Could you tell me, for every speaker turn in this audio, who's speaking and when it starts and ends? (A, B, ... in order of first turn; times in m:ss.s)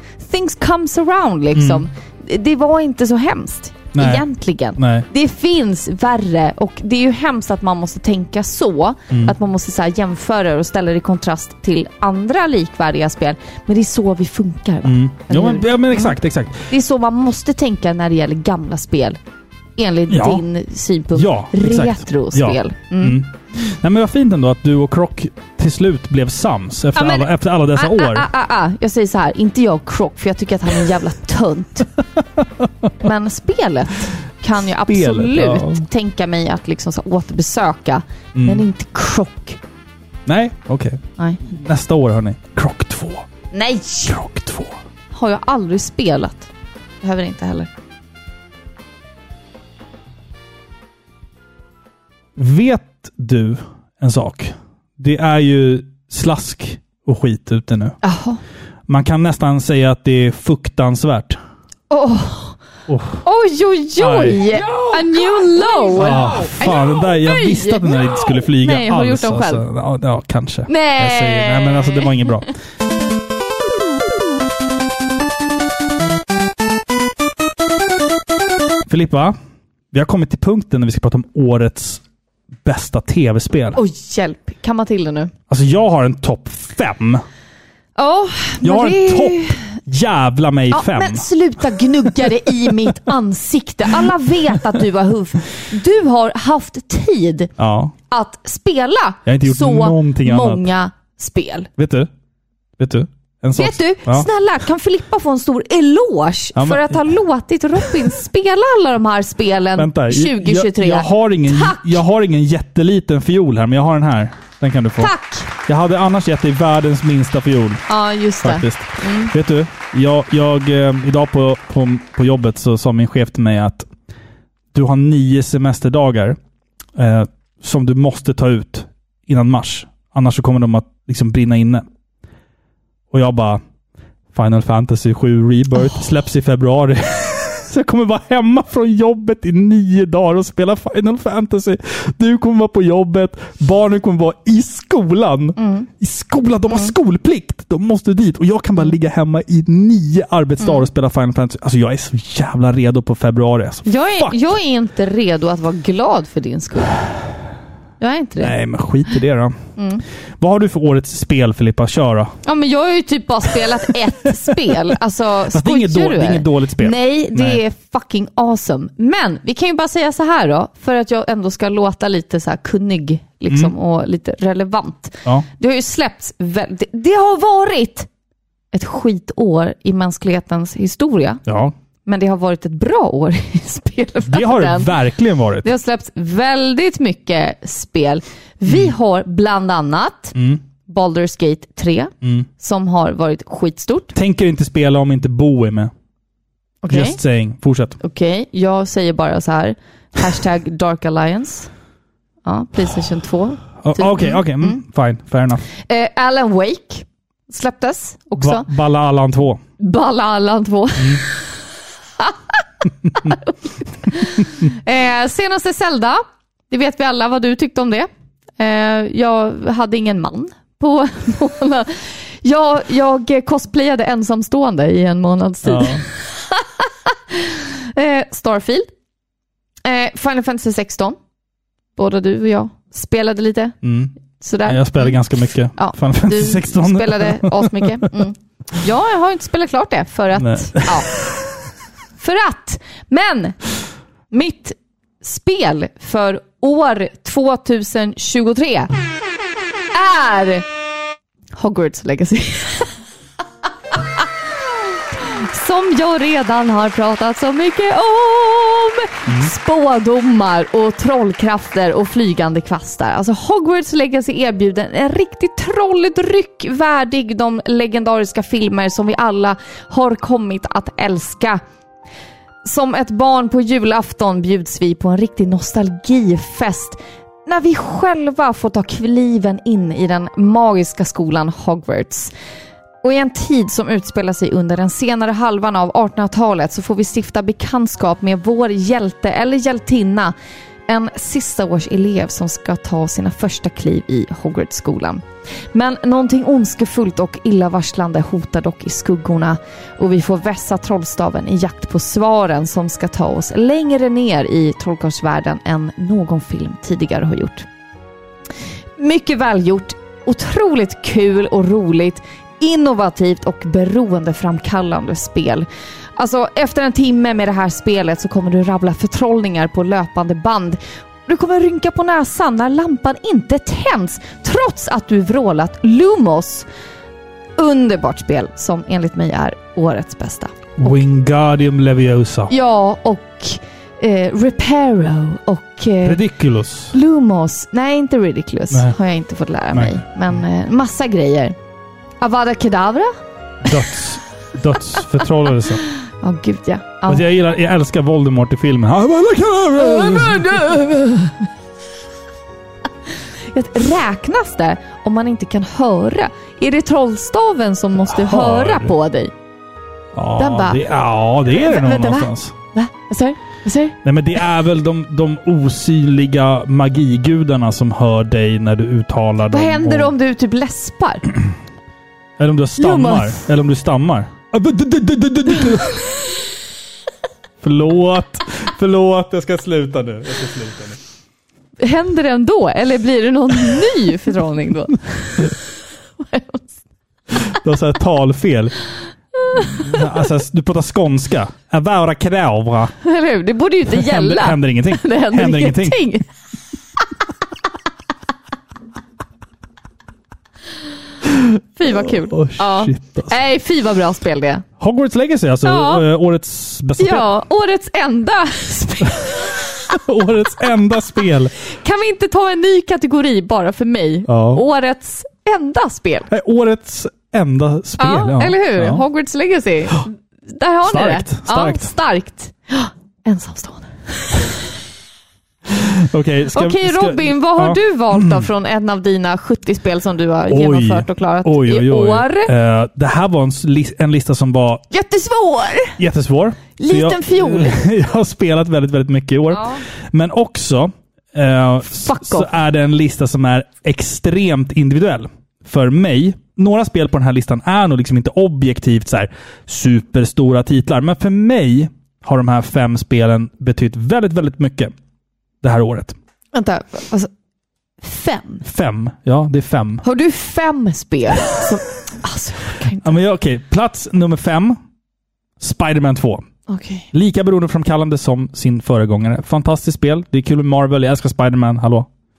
0:00.2-0:16.2 A
0:01.5-0:01.9 B
0:03.9-0:04.2 B
0:04.8-0:05.0 B
0:14.8-0:16.6 B
0:16.7-0:19.2 A
0:19.8-0:23.2 A
0:20.1-0:20.4 B
0:21.1-0:28.3 B
0:26.9-0:31.9 A
0:33.0-0:39.6 A
0:34.8-0:35.8 B
0:38.3-0:38.6 B
0:40.2-0:43.2 B
0:43.5-0:44.1 A
0:44.0-0:44.8 B
0:45.1-0:46.5 A
0:47.0-0:47.7 A
0:52.4-0:58.0 B
0:58.0-0:58.4 A
0:58.9-1:01.4 B
1:01.9-1:02.6 A
1:02.9-1:03.2 B
1:03.2-1:09.6 A
1:04.0-1:04.8 B
1:05.9-1:12.5 B
1:10.7-1:12.3 A
1:18.9-1:19.4 B
1:19.9-1:22.0 B
1:22.6-1:23.8 B
1:23.7-1:25.3 A
1:25.5-1:27.2 B
1:28.0-1:29.6 A
1:28.6-1:31.3 B
1:30.7-1:37.5 A
1:37.6-1:37.9 B
1:38.1-1:41.7 A
1:39.2-1:40.7 B
1:41.8-1:42.1 B
1:42.8-1:44.3 B
1:43.6-1:52.0 A
1:46.5-1:47.0 B
1:49.8-1:55.1 B
1:55.0-1:55.5 A
1:55.6-1:57.8 B
1:57.9-1:59.3 A
1:58.4-2:03.9 B
2:04.7-2:06.4 B
2:07.0-2:11.8 B
2:13.1-2:13.6 B
2:14.3-2:34.5 B
2:25.6-2:25.9 A
2:30.6-2:30.8 A
2:33.8-2:37.0 A
2:38.0-2:38.5 A
2:38.4-2:39.6 B
2:39.8-2:40.0 A
2:40.4-2:42.3 B
2:42.4-2:58.1 A
2:45.5-2:47.6 B
2:53.5-2:53.7 B
2:58.7-3:01.4 A
3:01.4-3:01.7 B
3:02.0-3:05.0 A
3:04.2-3:05.7 B
3:05.6-3:10.3 A
3:08.6-3:08.9 B
3:10.3-3:10.6 B
3:10.8-3:14.1 A
3:12.2-3:12.5 B
3:14.1-3:15.9 B
3:16.8-3:17.2 A
3:16.9-3:18.0 B
3:18.0-3:21.7 A
3:22.4-3:24.8 A
3:23.8-3:25.6 B
3:25.8-3:28.7 A
3:28.4-3:29.6 B
3:29.8-3:31.3 A
3:33.2-3:48.9 A
3:45.6-3:46.0 B
3:49.8-3:51.2 A
3:52.0-3:53.8 A
3:53.8-3:54.1 B
3:54.4-3:55.1 A
3:54.6-3:58.1 B
3:55.8-4:01.1 A
4:00.3-4:01.0 B
4:02.2-4:03.6 A
4:04.3-4:08.9 A
4:09.9-4:10.6 A
4:11.6-4:12.9 A
4:15.3-4:31.6 A
4:32.6-4:42.3 A
4:43.0-4:50.3 A
4:50.9-5:07.6 A
5:09.0-5:26.6 A
5:27.6-5:31.0 A
5:30.8-5:32.5 B
5:32.5-5:36.2 A
5:36.0-5:36.9 B
5:36.9-5:41.5 A
5:38.7-5:39.0 B
5:39.7-5:40.0 B
5:42.2-5:43.1 A
5:43.6-5:45.8 B
5:46.2-5:47.2 A
5:47.0-5:50.8 B
5:49.8-5:51.3 A
5:53.5-5:59.3 A
5:58.1-5:58.9 B
6:00.1-6:02.5 B
6:00.4-6:00.8 A
6:01.5-6:03.9 A
6:04.0-6:10.1 B
6:09.5-6:11.3 A
6:12.4-6:16.0 B
6:12.8-6:13.4 A
6:17.6-6:21.0 B
6:21.8-6:25.5 A
6:26.2-6:26.8 A
6:27.3-6:28.7 B
6:29.5-6:29.9 A
6:29.5-6:32.9 B
6:33.0-6:36.2 A
6:33.9-6:36.0 B
6:41.8-6:44.6 A
6:41.9-6:43.3 B
6:44.8-6:47.3 B
6:45.6-6:46.0 A
6:47.0-6:49.6 A
6:49.9-6:51.5 B
6:51.8-6:56.3 A
6:54.3-6:54.6 B
6:56.3-6:59.0 B
6:58.0-7:03.9 A
7:00.8-7:01.9 B
7:05.7-7:08.4 B
7:06.5-7:12.5 A
7:10.5-7:14.8 B
7:14.9-7:16.0 A
7:16.0-7:34.9 B
7:16.8-7:17.8 A
7:19.5-7:19.8 A
7:22.0-7:22.5 A
7:35.6-7:36.2 B
7:36.5-7:37.3 A
7:38.0-7:38.6 A
7:38.6-7:40.0 B
7:40.0-7:43.1 A
7:43.0-7:44.8 B
7:45.6-7:46.4 B
7:46.7-7:47.1 A
7:47.1-7:52.1 B